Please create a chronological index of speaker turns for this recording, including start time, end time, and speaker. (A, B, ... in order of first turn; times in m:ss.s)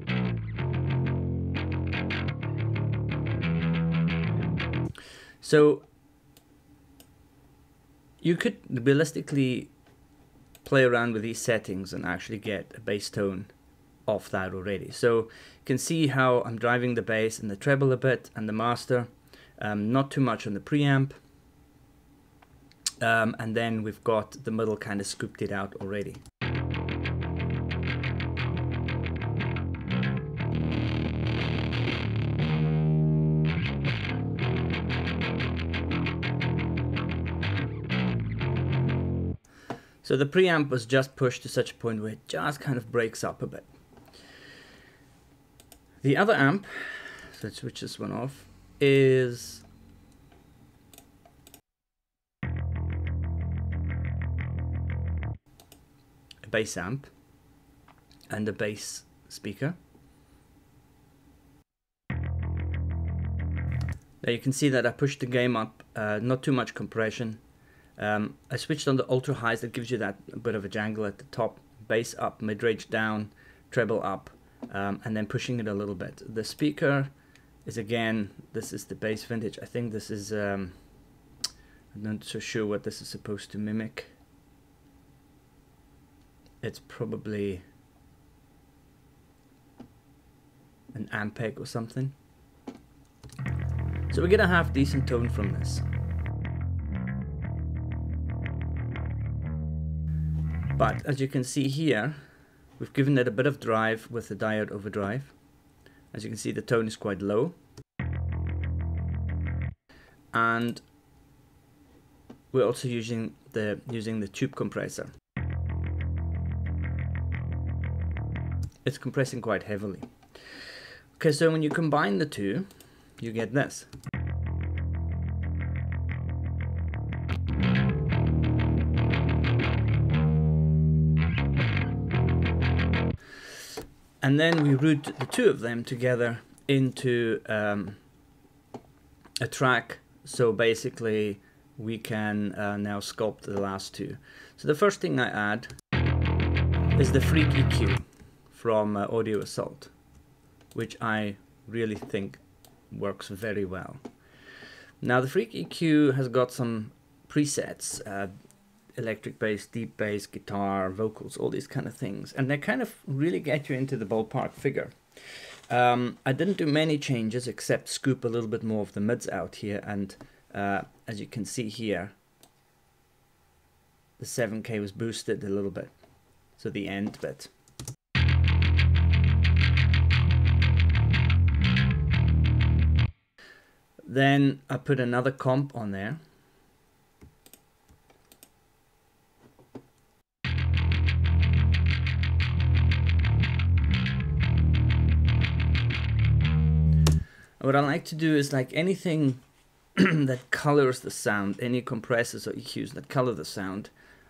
0:05.4-0:05.9 A
0:08.2-0:09.7 A
0:10.6-0:13.5 A
0:14.1-0:21.1 A
0:23.0-0:26.2 A
0:40.0-0:43.7 A
0:46.0-0:49.6 A
0:56.4-0:57.1 A
0:58.3-0:59.8 A
1:04.2-1:07.4 A
1:08.0-1:17.1 A
1:17.6-1:20.8 A
1:21.9-1:24.1 A
1:26.6-1:27.6 A
1:30.9-1:32.1 A
1:34.1-1:35.8 A
1:40.8-1:42.2 A
1:42.8-1:45.4 A
1:46.1-1:47.6 A
1:50.3-1:50.8 A
1:52.5-1:55.1 A
1:58.8-2:03.9 A
2:14.2-2:18.0 A
2:19.4-2:25.7 A
2:27.0-2:29.9 A
2:30.7-2:34.0 A
2:35.0-2:38.3 A
2:39.0-2:52.1 A
2:54.2-2:56.0 A
2:56.5-2:57.5 A
3:04.0-3:06.2 A
3:17.6-3:19.4 A
3:20.0-3:23.9 A